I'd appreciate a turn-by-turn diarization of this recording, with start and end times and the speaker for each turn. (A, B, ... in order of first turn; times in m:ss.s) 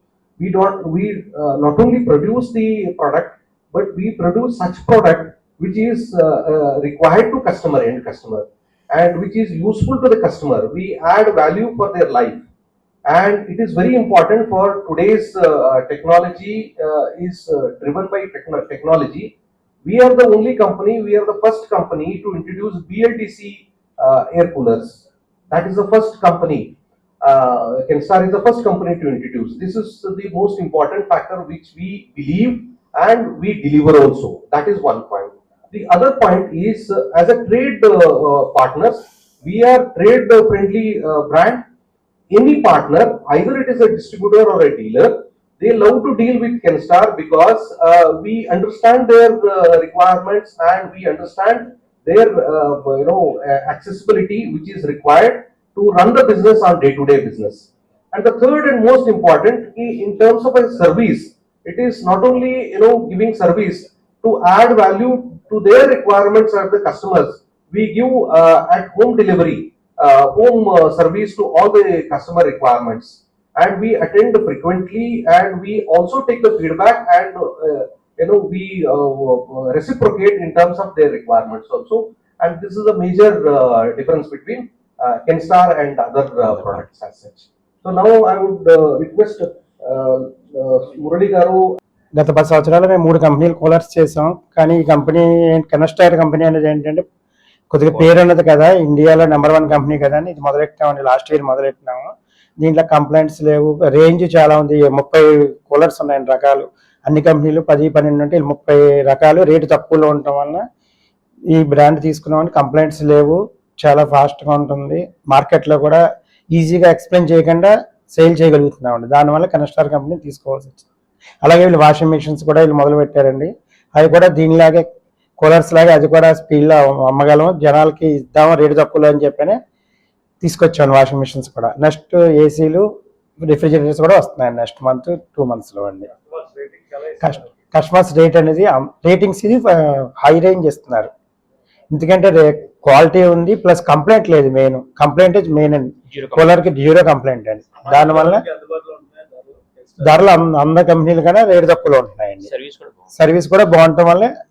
0:00.4-0:12.5 A
0:13.1-0:41.6 A
0:42.3-1:31.6 A
1:32.2-1:37.0 B
1:37.7-1:50.6 B
1:51.5-2:00.8 B
2:01.4-2:04.9 B
2:05.4-2:09.6 B
2:10.4-2:12.9 B
2:13.4-2:16.1 B
2:16.3-2:17.4 C
2:17.2-2:21.1 B
2:21.9-2:28.4 B
2:26.1-2:26.5 C
2:27.8-2:30.3 C
2:30.0-2:32.5 B
2:32.5-2:32.9 C
2:33.1-2:34.3 B